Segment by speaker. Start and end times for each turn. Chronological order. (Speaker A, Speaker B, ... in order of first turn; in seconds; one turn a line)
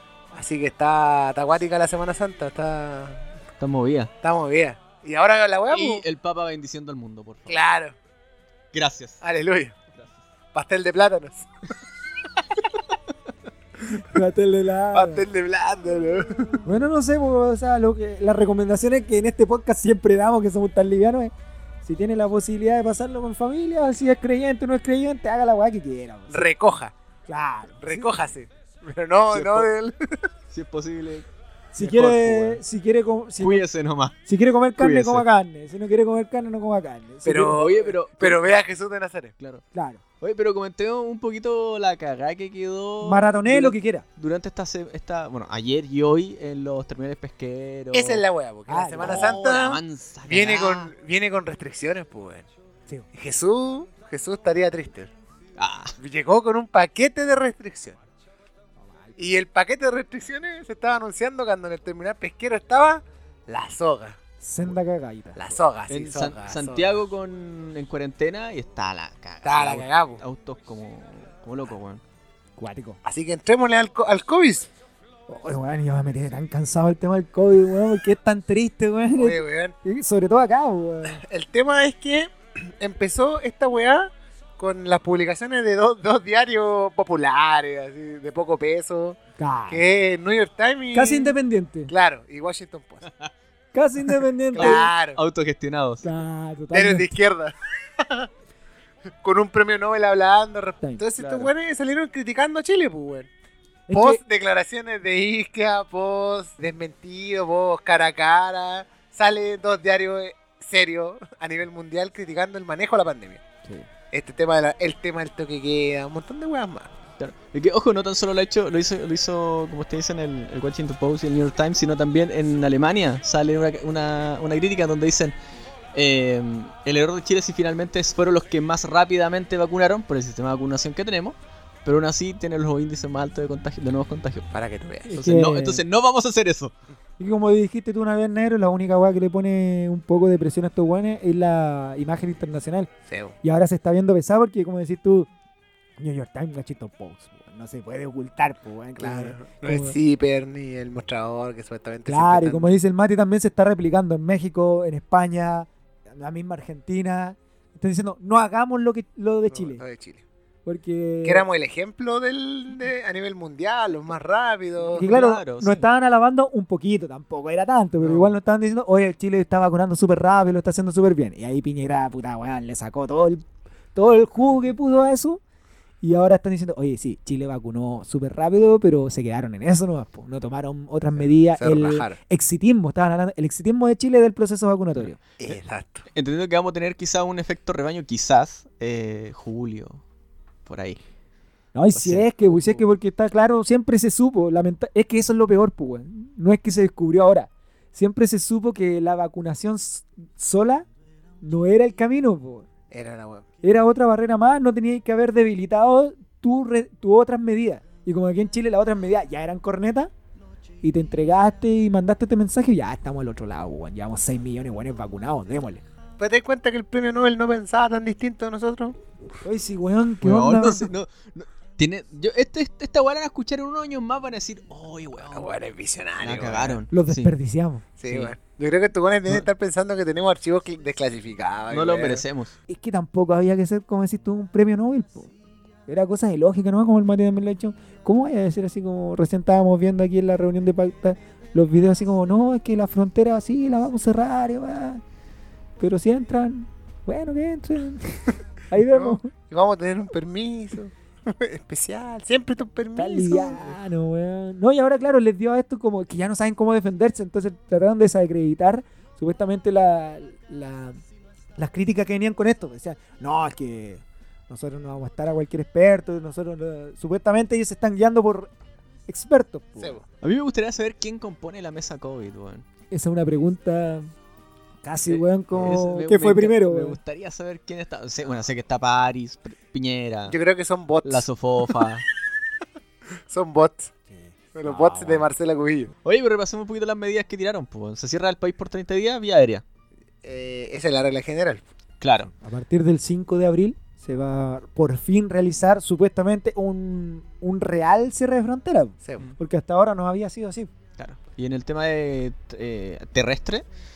Speaker A: 0.3-3.2
Speaker B: 3.6-4.1
Speaker A: 4.2-6.0
Speaker B: 5.7-7.6
Speaker A: 7.5-7.9
Speaker B: 8.7-9.2
Speaker A: 9.2-9.7
Speaker A: 10.5-11.5
Speaker C: 13.9-15.2
Speaker A: 14.9-16.7
Speaker C: 16.6-21.3
Speaker C: 21.8-26.5
Speaker A: 26.3-26.9
Speaker C: 27.3-28.1
Speaker A: 27.8-30.3
Speaker B: 29.3-29.7
Speaker B: 30.5-32.6
Speaker C: 31.7-33.6
Speaker B: 33.4-34.2
Speaker C: 34.2-37.6
Speaker B: 34.8-35.2
Speaker A: 37.2-39.3
Speaker B: 37.5-38.4
Speaker C: 39.7-40.0
Speaker B: 40.2-48.2
Speaker C: 43.0-44.0
Speaker A: 47.9-52.5
Speaker C: 48.7-49.3
Speaker B: 49.0-50.9
Speaker A: 53.1-55.1
Speaker B: 55.6-55.9
Speaker A: 56.0-58.0
Speaker C: 58.8-59.1
Speaker A: 59.2-64.2
Speaker C: 64.4-65.5
Speaker A: 65.3-67.0
Speaker B: 65.9-72.0
Speaker A: 69.4-70.2
Speaker C: 72.6-73.0
Speaker A: 73.0-74.7
Speaker C: 75.3-81.2
Speaker A: 79.2-79.7
Speaker A: 81.0-89.2
Speaker C: 89.4-89.8
Speaker A: 89.7-91.3
Speaker C: 90.9-91.9
Speaker A: 91.9-93.0
Speaker C: 93.7-94.9
Speaker A: 94.5-95.2
Speaker B: 94.6-96.0
Speaker C: 96.0-97.1
Speaker A: 96.7-98.3
Speaker A: 99.2-103.3
Speaker B: 101.2-101.5
Speaker C: 103.9-104.2
Speaker A: 103.9-113.4
Speaker A: 114.1-116.9
Speaker B: 117.2-125.3
Speaker B: 125.9-134.5
Speaker A: 134.5-135.2
Speaker C: 135.1-135.8
Speaker B: 135.1-136.7
Speaker C: 137.2-142.9
Speaker A: 143.1-143.3
Speaker C: 143.4-145.3
Speaker C: 146.0-149.9
Speaker A: 149.0-152.7
Speaker C: 152.1-159.8
Speaker A: 159.5-160.2
Speaker C: 160.7-161.4
Speaker A: 161.2-165.1
Speaker B: 164.9-165.8
Speaker C: 164.9-175.4
Speaker C: 176.0-185.2
Speaker A: 181.6-182.2
Speaker A: 185.4-186.0
Speaker B: 186.1-190.0
Speaker B: 190.7-191.0
Speaker C: 191.7-200.8
Speaker B: 191.9-192.9
Speaker C: 201.4-202.7
Speaker A: 202.9-203.4
Speaker C: 203.6-210.1
Speaker C: 210.8-215.8
Speaker A: 216.2-219.0
Speaker C: 219.4-220.9
Speaker B: 220.2-225.5
Speaker A: 225.2-226.8
Speaker B: 226.2-227.3
Speaker C: 226.9-227.8
Speaker A: 228.0-232.2
Speaker B: 231.7-232.5
Speaker C: 232.7-235.3
Speaker C: 235.9-245.0
Speaker C: 245.8-249.3
Speaker A: 248.8-253.8
Speaker C: 252.9-261.0
Speaker C: 261.6-268.5
Speaker C: 269.1-270.0
Speaker A: 269.8-270.0
Speaker B: 270.2-272.6
Speaker C: 272.9-274.1
Speaker C: 274.8-277.0
Speaker B: 275.1-280.4
Speaker A: 280.3-281.7
Speaker B: 281.0-282.0
Speaker A: 283.3-283.9
Speaker C: 284.1-285.2
Speaker A: 284.5-285.9
Speaker B: 286.0-289.6
Speaker A: 290.2-291.6
Speaker B: 292.0-292.3
Speaker C: 292.4-300.7
Speaker B: 301.0-303.6